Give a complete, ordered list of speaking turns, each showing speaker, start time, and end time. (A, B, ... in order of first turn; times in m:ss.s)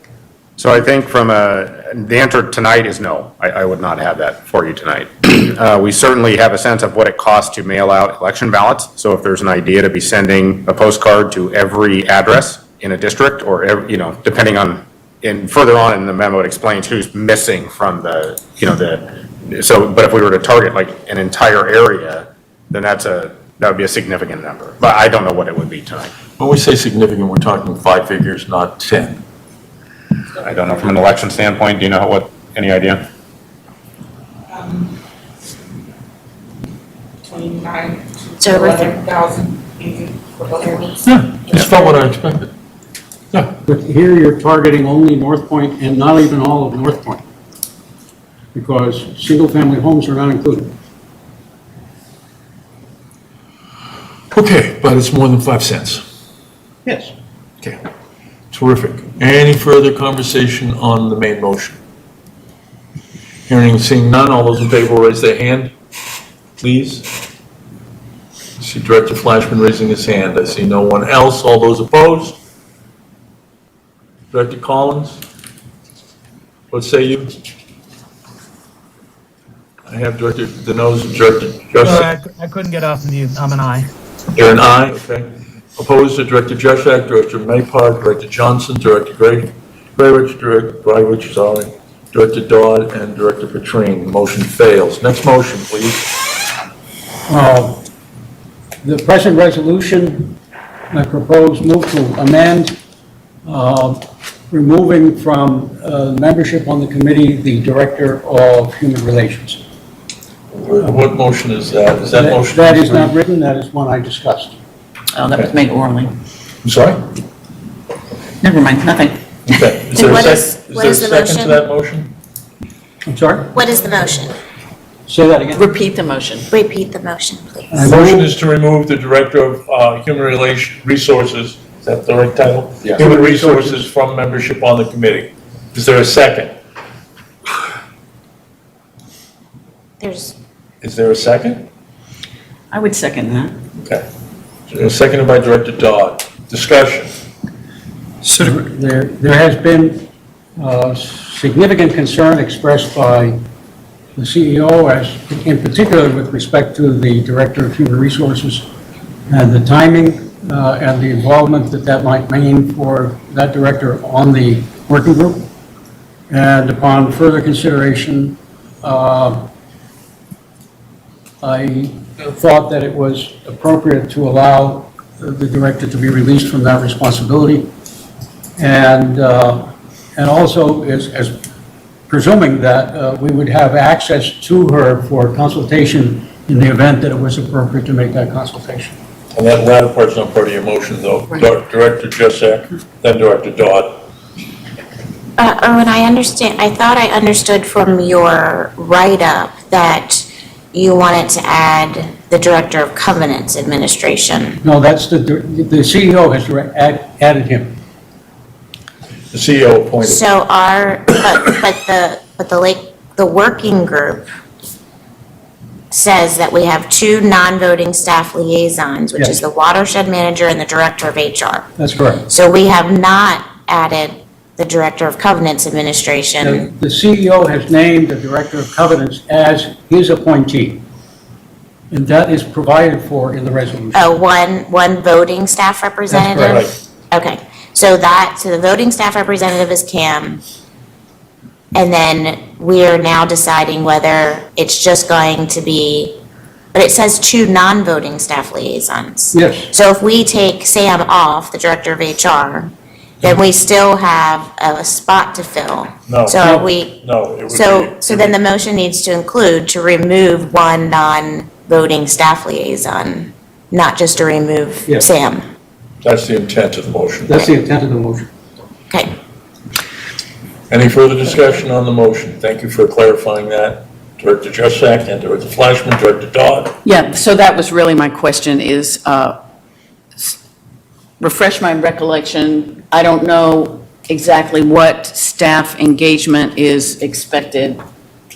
0:00.6-0:26.1 A
0:26.4-0:29.2 B
0:30.4-0:33.0 A
0:37.4-0:38.0 C
0:38.4-0:39.1 D
0:38.6-0:40.6 C
0:41.0-0:42.5 B
0:43.6-0:47.2 E
0:48.5-0:50.8 E
0:54.3-0:56.0 B
0:56.8-0:57.1 E
0:58.5-1:01.8 B
1:03.5-1:05.8 B
1:06.6-1:07.1 B
1:08.6-1:12.4 B
1:14.3-1:15.2 B
1:16.7-1:17.3 B
1:19.9-1:22.1 B
1:21.8-1:23.9 F
1:24.4-1:36.1 B
1:37.3-1:37.8 E
1:38.8-1:40.4 E
1:40.9-1:42.8 E
1:43.4-1:49.6 E
1:50.5-1:53.1 B
1:52.1-1:54.6 E
1:55.1-1:56.1 G
1:56.6-1:57.1 B
1:58.4-1:59.2 G
1:59.5-2:02.1 B
1:59.9-2:01.6 D
2:03.0-2:03.6 E
2:03.6-2:04.4 D
2:05.1-2:05.6 E
2:05.6-2:06.5 G
2:06.5-2:07.8 D
2:07.7-2:08.3 E
2:07.8-2:16.5 B
2:13.0-2:13.9 E
2:20.0-2:20.4 D
2:20.8-2:21.7 B
2:22.7-2:23.6 G
2:23.8-2:24.0 B
2:24.7-2:27.1 B
2:28.4-2:33.4 E
2:34.2-2:38.7 E
2:39.3-2:45.5 E
2:46.3-2:49.5 E
2:51.4-2:57.7 E
2:58.6-3:01.4 E
3:02.1-3:09.0 E
3:09.3-3:14.1 B
3:15.4-3:24.6 D
3:24.6-3:27.8 E
3:29.3-3:30.2 B
3:30.0-3:34.3 D
3:35.9-3:41.7 D
3:41.8-3:42.2 E
3:42.3-3:46.7 D
3:46.4-3:50.8 E
3:51.9-3:54.2 E
3:54.0-4:00.4 D
3:56.1-3:56.6 E
3:56.4-3:56.8 B
4:01.7-4:06.2 D
4:06.7-4:25.4 D
4:09.3-4:09.7 E
4:16.1-4:18.4 B
4:26.0-4:27.4 B
4:27.3-4:28.3 E
4:30.7-4:36.8 B
4:36.8-4:39.4 G
4:41.2-4:47.8 G